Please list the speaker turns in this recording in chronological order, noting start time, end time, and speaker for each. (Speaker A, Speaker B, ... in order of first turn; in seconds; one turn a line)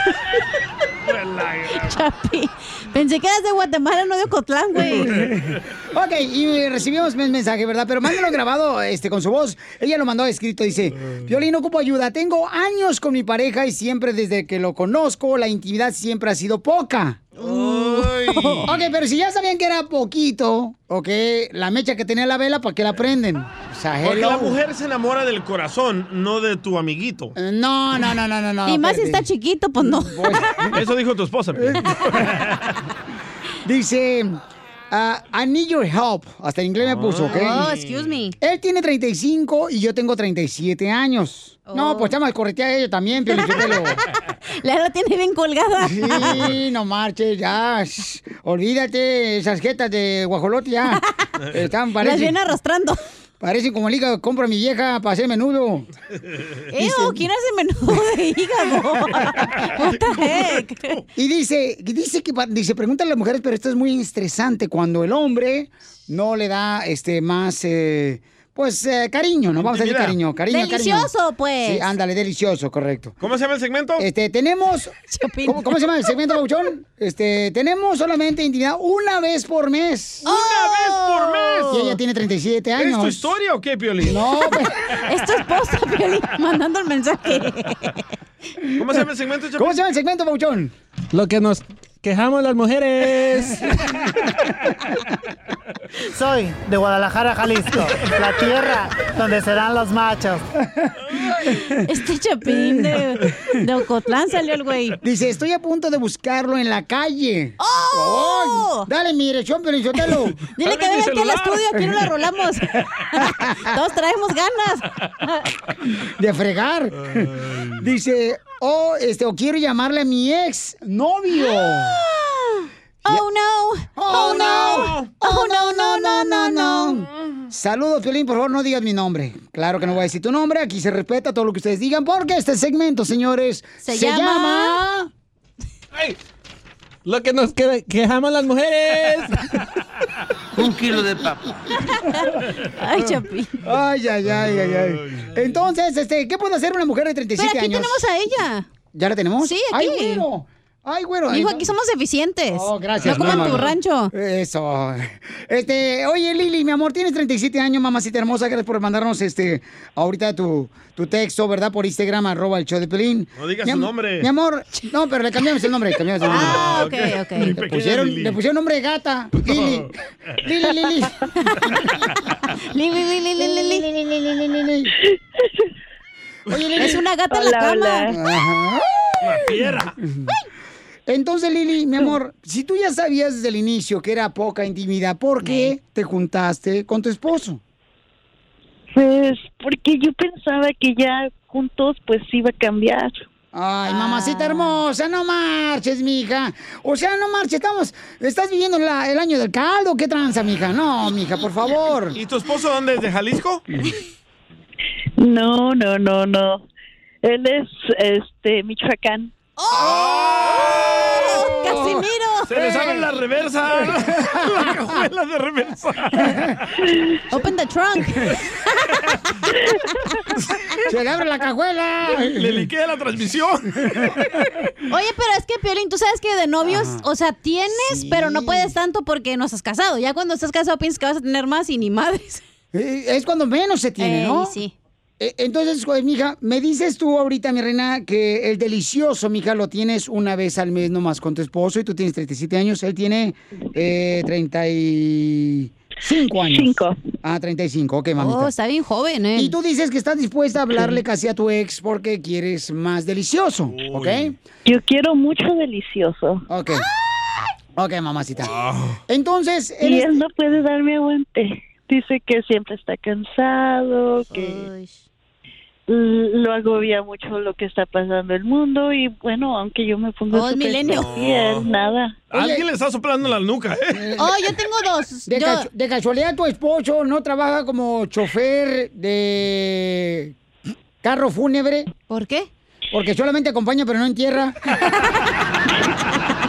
Speaker A: 1.1-1.9
Speaker B: 1.7-5.2
Speaker C: 5.0-17.2
Speaker B: 17.4-18.7
Speaker A: 17.4-18.7
Speaker C: 18.7-24.6
Speaker A: 24.0-27.3
Speaker C: 27.4-29.3
Speaker B: 28.7-30.7
Speaker C: 29.8-30.8
Speaker A: 30.7-32.6
Speaker C: 31.6-32.3
Speaker C: 33.6-37.7
Speaker A: 36.8-38.1
Speaker B: 37.3-38.4
Speaker C: 38.4-44.0
Speaker B: 41.6-42.1
Speaker B: 43.3-44.0
Speaker B: 44.6-46.5
Speaker C: 45.8-52.4
Speaker B: 52.0-53.0
Speaker C: 53.4-55.9
Speaker B: 56.7-61.0
Speaker C: 56.8-57.2
Speaker C: 61.1-71.1
Speaker A: 69.6-70.2
Speaker B: 70.5-71.9
Speaker C: 71.6-73.2
Speaker A: 73.2-74.1
Speaker C: 74.0-80.3
Speaker B: 75.1-75.8
Speaker B: 80.2-81.8
Speaker A: 80.2-81.9
Speaker C: 81.7-83.3
Speaker A: 82.8-84.2
Speaker C: 84.0-84.7
Speaker B: 84.5-88.0
Speaker C: 88.6-89.0
Speaker A: 88.8-89.8
Speaker C: 89.6-90.7
Speaker D: 91.1-93.3
Speaker E: 96.2-100.5
Speaker C: 100.7-101.0
Speaker B: 101.8-105.0
Speaker C: 105.0-110.4
Speaker B: 107.6-108.9
Speaker B: 110.6-114.9
Speaker A: 110.6-111.9
Speaker C: 113.2-113.4
Speaker C: 116.1-122.0
Speaker A: 117.1-117.8
Speaker B: 121.4-127.0
Speaker C: 124.0-135.1
Speaker A: 124.5-125.1
Speaker B: 133.8-134.9
Speaker D: 137.1-139.2
Speaker C: 140.6-141.8
Speaker B: 142.0-142.2
Speaker B: 142.8-143.6
Speaker C: 143.6-148.1
Speaker A: 144.3-145.4
Speaker B: 147.4-148.7
Speaker C: 148.9-151.7
Speaker B: 149.4-150.3
Speaker B: 151.3-154.1
Speaker C: 152.5-166.7
Speaker A: 153.0-153.7
Speaker A: 163.4-164.3
Speaker A: 166.2-168.4
Speaker B: 166.3-167.6
Speaker C: 167.4-171.1
Speaker A: 169.4-169.9
Speaker B: 172.7-173.9
Speaker C: 173.4-174.9
Speaker C: 176.5-177.1
Speaker B: 176.8-178.1
Speaker F: 177.3-178.1
Speaker C: 178.1-180.3
Speaker A: 179.2-180.0
Speaker C: 181.1-187.6
Speaker B: 185.4-185.8
Speaker F: 188.9-193.2
Speaker C: 193.5-202.2
Speaker B: 193.9-194.8
Speaker A: 202.2-203.7
Speaker F: 205.2-206.7
Speaker F: 207.2-209.3
Speaker B: 209.6-212.5
Speaker A: 209.8-211.1
Speaker C: 211.2-213.1
Speaker A: 212.5-216.4
Speaker C: 213.8-214.8
Speaker C: 216.2-216.5
Speaker B: 217.3-219.1
Speaker C: 220.9-222.7
Speaker A: 222.1-224.5
Speaker B: 224.9-232.4
Speaker C: 226.6-227.1
Speaker C: 227.7-228.8
Speaker C: 232.7-234.6
Speaker B: 234.0-234.7
Speaker C: 235.2-248.5
Speaker F: 246.4-247.0
Speaker B: 248.2-249.6
Speaker C: 249.3-254.3
Speaker A: 253.7-254.3
Speaker F: 254.7-256.4
Speaker C: 256.5-256.9
Speaker C: 257.8-258.5
Speaker A: 258.4-259.0
Speaker C: 259.1-260.2
Speaker F: 259.8-264.7
Speaker B: 264.3-265.0
Speaker F: 265.9-272.2
Speaker B: 270.3-271.1
Speaker A: 270.8-271.7
Speaker A: 272.3-274.1
Speaker C: 272.3-272.6
Speaker C: 273.9-274.4
Speaker B: 274.2-275.7
Speaker C: 275.3-280.4
Speaker C: 281.0-281.9
Speaker B: 282.1-282.5
Speaker C: 282.9-284.6
Speaker B: 284.9-285.1